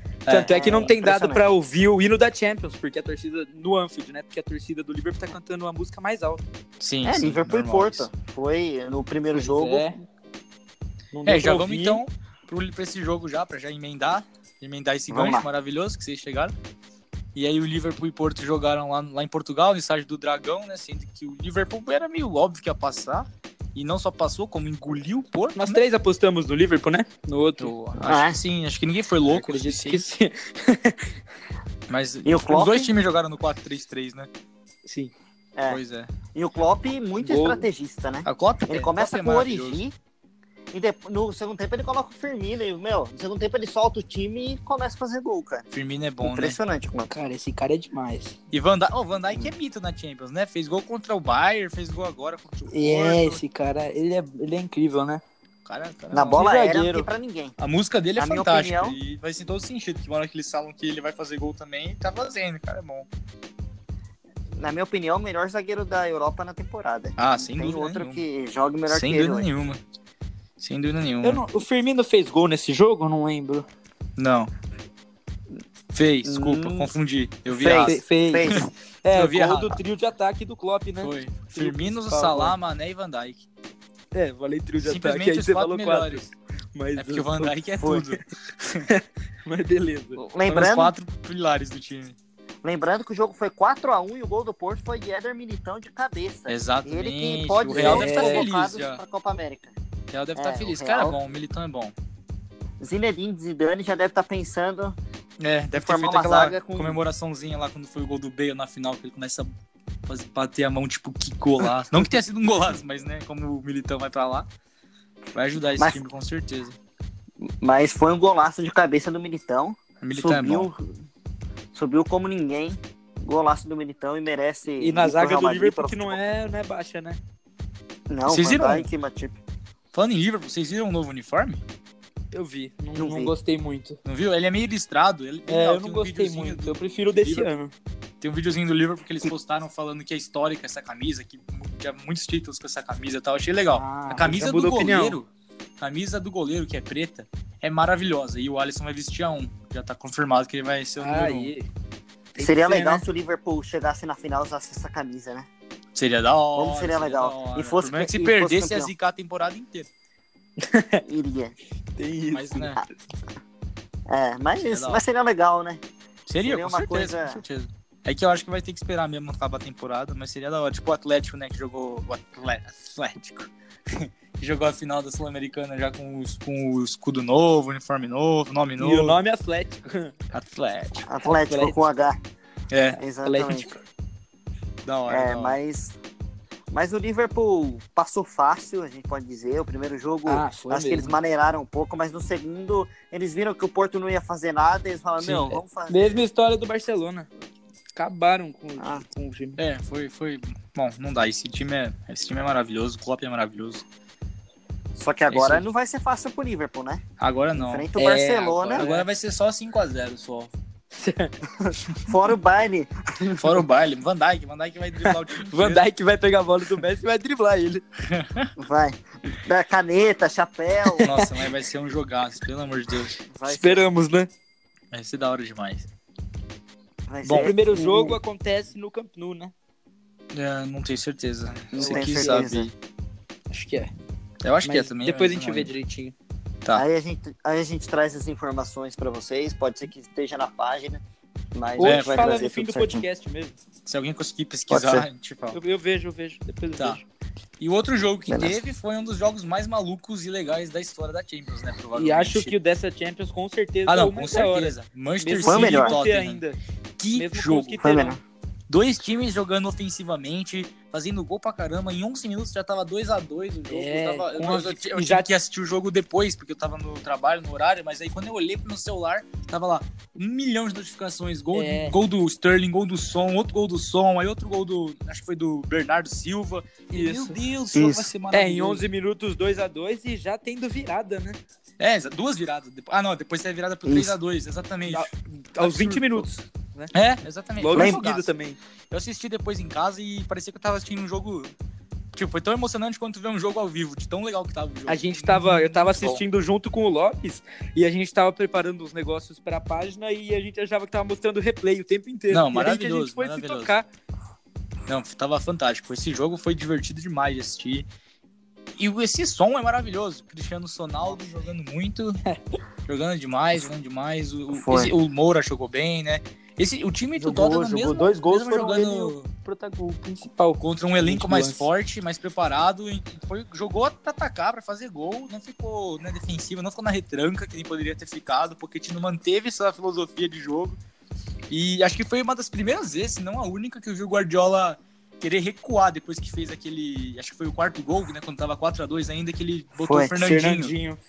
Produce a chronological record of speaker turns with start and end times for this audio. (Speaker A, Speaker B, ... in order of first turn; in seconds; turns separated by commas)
Speaker A: 0.2-0.6, Speaker B: 0.3-6.5, Speaker C: 0.5-1.4, Speaker A: 6.8-8.1, Speaker C: 7.0-9.9, Speaker B: 9.3-10.0, Speaker B: 11.1-12.0, Speaker A: 11.2-16.5, Speaker C: 15.1-15.5, Speaker A: 17.4-25.8, Speaker B: 25.6-27.7, Speaker A: 27.6-30.0, Speaker C: 28.0-28.4, Speaker B: 29.2-31.2, Speaker A: 31.9-34.3, Speaker C: 32.2-32.9, Speaker B: 34.9-35.1, Speaker A: 35.7-36.1, Speaker C: 36.3-40.0, Speaker B: 37.2-37.7, Speaker A: 38.2-39.8, Speaker C: 40.7-45.7, Speaker A: 45.7-46.6, Speaker C: 46.2-47.1, Speaker B: 47.1-48.4, Speaker A: 48.5-53.4, Speaker B: 52.7-55.2, Speaker A: 55.6-56.4, Speaker C: 56.1-57.5, Speaker B: 56.3-57.1, Speaker A: 57.6-63.1, Speaker C: 58.2-59.0, Speaker C: 64.5-69.5, Speaker A: 67.2-68.2, Speaker A: 68.9-69.8, Speaker A: 70.6-71.4, Speaker B: 71.2-73.7, Speaker A: 74.2-74.5, Speaker A: 75.9-79.8, Speaker C: 76.2-76.9, Speaker C: 77.5-78.7, Speaker B: 77.8-82.6, Speaker A: 81.0-83.5, Speaker B: 84.1-87.5, Speaker A: 84.8-86.3, Speaker A: 87.0-88.9, Speaker C: 87.8-88.1, Speaker B: 88.9-90.2, Speaker C: 90.2-90.9, Speaker A: 90.5-92.2, Speaker C: 92.6-99.8, Speaker A: 96.5-99.0, Speaker B: 97.8-98.5, Speaker A: 100.1-101.9, Speaker C: 100.4-101.2, Speaker C: 102.8-105.0, Speaker A: 105.4-109.5, Speaker C: 105.7-107.0, Speaker A: 110.1-114.5, Speaker A: 115.3-116.8, Speaker C: 117.4-120.9, Speaker A: 120.0-120.7, Speaker C: 121.7-126.2, Speaker B: 124.8-127.2, Speaker C: 128.1-129.4, Speaker A: 128.3-128.9, Speaker A: 129.9-131.6, Speaker B: 132.3-134.0, Speaker C: 132.9-133.3, Speaker A: 134.1-137.5, Speaker B: 135.5-137.7, Speaker A: 138.2-145.3, Speaker B: 143.7-145.2, Speaker A: 145.8-151.5, Speaker B: 151.0-151.7, Speaker B: 152.3-153.0, Speaker C: 152.4-155.5, Speaker A: 155.9-159.9, Speaker C: 156.6-158.9, Speaker B: 160.6-161.0, Speaker C: 161.0-161.6, Speaker B: 162.0-162.8, Speaker A: 162.3-162.8, Speaker C: 164.1-165.8, Speaker A: 164.6-165.0, Speaker A: 166.3-179.2, Speaker C: 166.4-167.4, Speaker B: 178.8-180.1, Speaker A: 180.3-181.1, Speaker C: 181.1-182.2, Speaker B: 181.2-181.8, Speaker A: 182.7-183.0, Speaker C: 183.0-183.7, Speaker B: 183.2-183.8, Speaker A: 184.8-185.6, Speaker C: 185.1-185.9, Speaker C: 186.7-196.2, Speaker B: 190.3-191.2, Speaker B: 195.2-197.3, Speaker B: 197.9-199.6, Speaker C: 198.8-199.0, Speaker A: 199.6-203.8, Speaker C: 204.9-207.0, Speaker A: 205.3-205.6, Speaker A: 207.2-207.9, Speaker C: 207.6-208.9, Speaker B: 207.9-209.1, Speaker A: 208.8-210.5, Speaker B: 210.9-211.3, Speaker C: 211.6-213.6, Speaker A: 213.3-215.8, Speaker B: 215.0-217.8, Speaker A: 218.1-218.5, Speaker C: 218.6-221.1, Speaker B: 220.9-221.3, Speaker A: 221.0-223.1, Speaker C: 223.3-223.8, Speaker B: 223.4-224.3, Speaker A: 224.9-225.9, Speaker C: 227.1-228.2, Speaker A: 227.2-227.5, Speaker B: 227.3-229.5, Speaker A: 230.3-232.7, Speaker C: 231.7-232.7, Speaker B: 231.8-232.4, Speaker B: 233.5-233.9, Speaker A: 234.4-235.7, Speaker B: 234.6-236.1, Speaker C: 236.7-241.0, Speaker C: 241.5-243.1, Speaker B: 241.8-243.6, Speaker A: 241.8-242.3, Speaker A: 243.9-245.6, Speaker C: 244.7-245.1, Speaker B: 245.5-247.1, Speaker A: 247.6-252.5, Speaker C: 248.3-248.6, Speaker B: 251.9-256.6, Speaker A: 253.9-256.4, Speaker C: 255.4-256.0, Speaker A: 257.0-257.9, Speaker B: 257.1-258.2, Speaker C: 257.8-258.2, Speaker A: 258.7-278.8, Speaker B: 263.7-265.3, Speaker B: 271.5-272.0, Speaker B: 276.9-277.4, Speaker C: 277.7-278.1, Speaker B: 278.3-281.4, Speaker A: 281.8-286.3, Speaker C: 283.9-284.1, Speaker B: 284.9-286.9, Speaker A: 286.9-288.3, Speaker B: 287.6-288.6, Speaker C: 287.7-288.0, Speaker A: 288.9-291.5, Speaker A: 292.1-296.2, Speaker B: 294.9-303.9, Speaker A: 302.3-303.8, Speaker A: 304.9-307.9, Speaker A: 308.8-312.2, Speaker A: 312.9-319.3, Speaker C: 314.5-314.9, Speaker B: 317.2-321.6, Speaker A: 320.6-330.8, Speaker A: 331.5-340.7, Speaker C: 339.8-340.1, Speaker B: 340.1-341.0